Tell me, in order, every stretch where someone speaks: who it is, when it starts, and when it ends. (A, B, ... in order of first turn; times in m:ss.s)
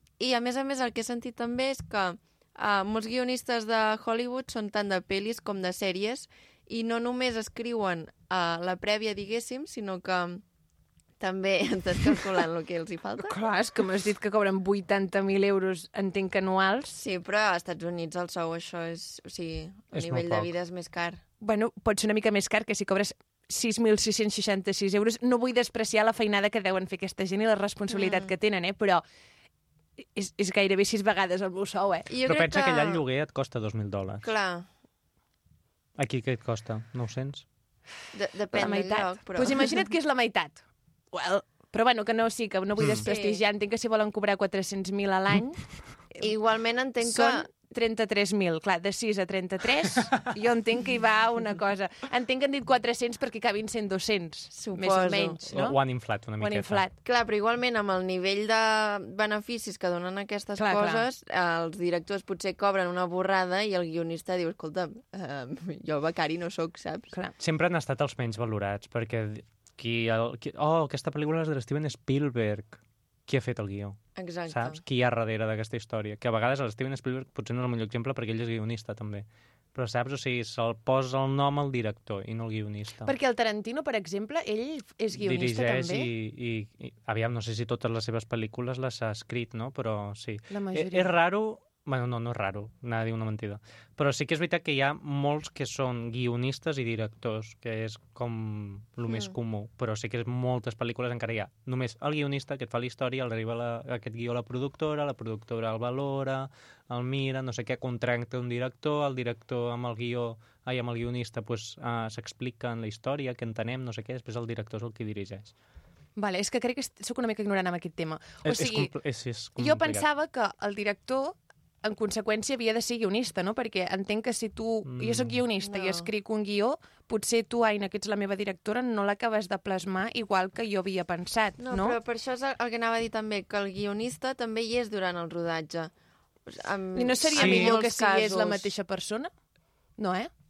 0:00.2-0:10.4 A
0:11.2-0:13.4 A
0:13.2-0:17.0 B
0:16.9-0:21.2 A
0:19.9-0:20.5 C
0:21.4-0:29.0 B
0:27.9-0:28.3 A
0:30.2-0:32.1 B
0:32.1-0:33.0 A
0:32.2-0:34.3 C
0:34.2-0:34.7 A
0:36.0-0:37.5 C
0:38.1-0:39.8 A
0:38.5-0:45.6 B
0:42.8-0:43.1 C
0:43.1-0:43.4 A
0:46.2-0:47.5 A
0:47.0-0:55.8 B
0:54.5-0:55.4 A
0:55.5-0:56.9 C
0:56.4-0:57.0 B
0:57.0-1:07.1 A
1:00.6-1:01.0 B
1:07.4-1:23.1 C
1:14.2-1:14.8 A
1:23.0-1:26.1 B
1:25.1-1:55.5 C
1:30.5-1:31.2 B
1:39.1-1:39.3 A
1:56.2-1:58.9 B
1:58.4-2:00.1 C
1:59.6-2:12.0 B
2:04.8-2:05.4 C
2:05.6-2:06.1 A
2:11.6-2:15.9 A
2:16.5-2:18.7 A
2:17.0-2:19.3 B
2:17.3-2:17.8 C
2:20.0-2:20.3 B